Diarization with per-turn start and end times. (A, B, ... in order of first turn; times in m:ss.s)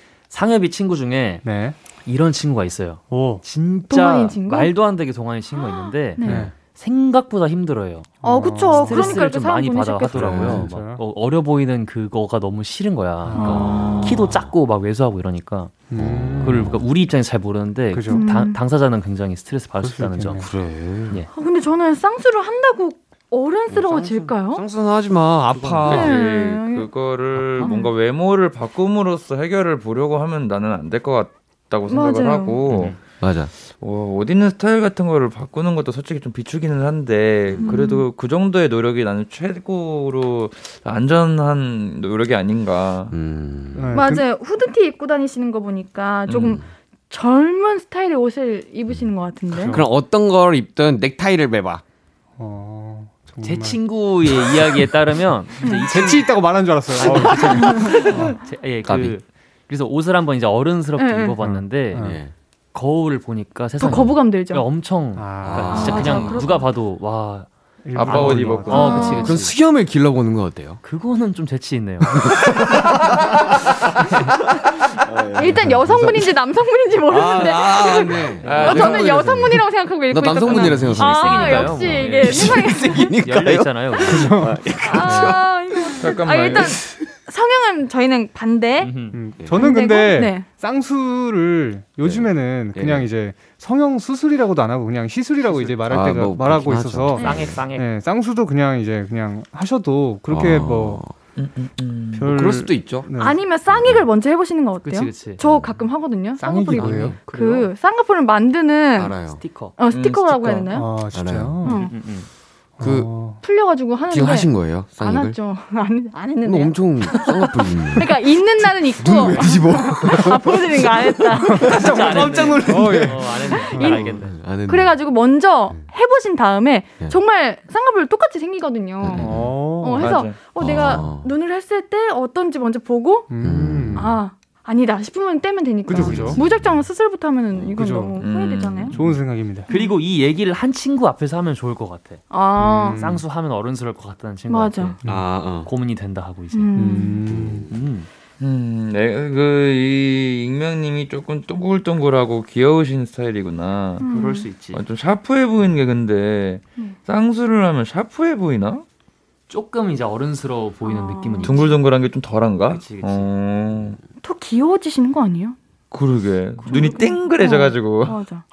0:00.3-0:08.2 A
0:01.4-0:01.8 B
0:03.1-0:03.4 B
0:03.9-0:04.7 C
0:05.6-0:06.5 C
0:06.2-0:06.5 B
0:08.2-0:09.2 B
0:08.2-0:10.6 C
0:08.7-0:15.9 A
0:10.2-0:10.7 D
0:10.2-0:11.0 B
0:13.2-0:13.6 B
0:13.3-0:14.2 C
0:13.5-0:14.5 D
0:15.9-0:16.8 B
0:15.9-0:16.8 D
0:16.4-0:20.5 A
0:17.9-0:18.3 B
0:18.1-0:18.6 C
0:19.8-0:20.5 B
0:20.3-0:21.2 D
0:21.3-0:24.6 C
0:23.7-0:24.4 A
0:24.5-0:26.1 D
0:25.5-0:26.1 A
0:25.9-0:33.0 E
0:25.9-0:26.9 C
0:27.4-0:27.7 A
0:27.6-0:27.9 C
0:31.9-0:32.6 C
0:32.7-0:33.0 A
0:33.2-0:33.5 D
0:33.7-0:43.1 E
0:37.5-0:37.8 D
0:37.6-0:38.1 C
0:43.1-0:44.1 D
0:43.8-0:44.2 B
0:43.9-0:49.8 C
0:46.3-0:46.6 E
0:49.5-0:49.9 B
0:49.7-0:51.8 D
0:52.4-0:54.5 B
0:53.4-1:02.1 A
0:55.6-0:58.4 B
0:57.5-0:58.0 C
0:58.8-0:59.2 D
1:01.0-1:01.4 C
1:01.4-1:02.2 B
1:02.0-1:02.3 D
1:02.7-1:09.6 A
1:03.8-1:04.6 C
1:05.2-1:05.9 B
1:05.4-1:06.5 D
1:05.7-1:06.7 C
1:07.8-1:08.8 B
1:08.0-1:09.2 E
1:08.7-1:09.4 C
1:09.0-1:10.8 D
1:10.8-1:12.1 A
1:12.1-1:13.0 D
1:15.1-1:16.3 D
1:15.4-1:23.1 C
1:17.0-1:26.2 D
1:18.4-1:19.6 E
1:20.5-1:24.5 A
1:24.0-1:24.6 B
1:24.8-1:28.9 C
1:26.0-1:26.8 E
1:28.8-1:29.2 A
1:29.1-1:41.0 B
1:29.4-1:29.7 D
1:29.5-1:30.5 C
1:32.0-1:33.1 D
1:35.8-1:37.7 D
1:37.2-1:37.5 C
1:37.2-1:37.9 A
1:40.3-1:41.2 D
1:41.4-1:42.3 E
1:42.1-1:43.5 B
1:42.2-1:43.1 D
1:43.2-1:49.1 C
1:43.6-1:44.0 D
1:44.8-1:45.4 A
1:45.4-1:45.8 D
1:46.4-1:47.2 B
1:46.7-1:47.7 A
1:49.0-1:49.4 D
1:49.3-1:49.8 A
1:49.8-1:50.9 C
1:49.9-1:50.6 E
1:50.7-1:51.8 B
1:51.1-1:51.7 D
1:51.6-1:51.9 C
1:51.8-1:52.3 A
1:52.8-1:53.4 B
1:52.8-1:53.2 D
1:53.4-2:01.8 C
1:54.1-1:55.4 D
1:56.4-2:05.1 D
2:01.7-2:04.4 A
2:02.0-2:04.1 B
2:03.5-2:04.1 C
2:04.7-2:13.3 C
2:09.0-2:09.8 D
2:09.2-2:10.1 B
2:10.0-2:10.6 E
2:10.5-2:11.3 D
2:13.3-2:14.2 B
2:13.4-2:14.2 D
2:14.0-2:19.1 C
2:15.9-2:16.4 B
2:16.0-2:16.5 D
2:17.8-2:18.2 B
2:18.2-2:19.0 E
2:19.0-2:19.7 B
2:19.7-2:20.0 C
2:19.7-2:28.1 A
2:22.3-2:23.0 C
2:22.6-2:23.2 B
2:24.5-2:25.0 C
2:25.0-2:25.7 D
2:26.5-2:27.2 C
2:26.8-2:27.7 B
2:27.3-2:27.6 D
2:28.4-2:38.8 E
2:34.0-2:34.5 C
2:34.0-2:34.8 A
2:39.5-2:41.8 A
2:40.8-2:41.7 C
2:41.4-2:44.0 E
2:42.7-2:43.3 A
2:44.2-2:45.6 C
2:45.9-2:48.2 E
2:46.6-2:48.4 C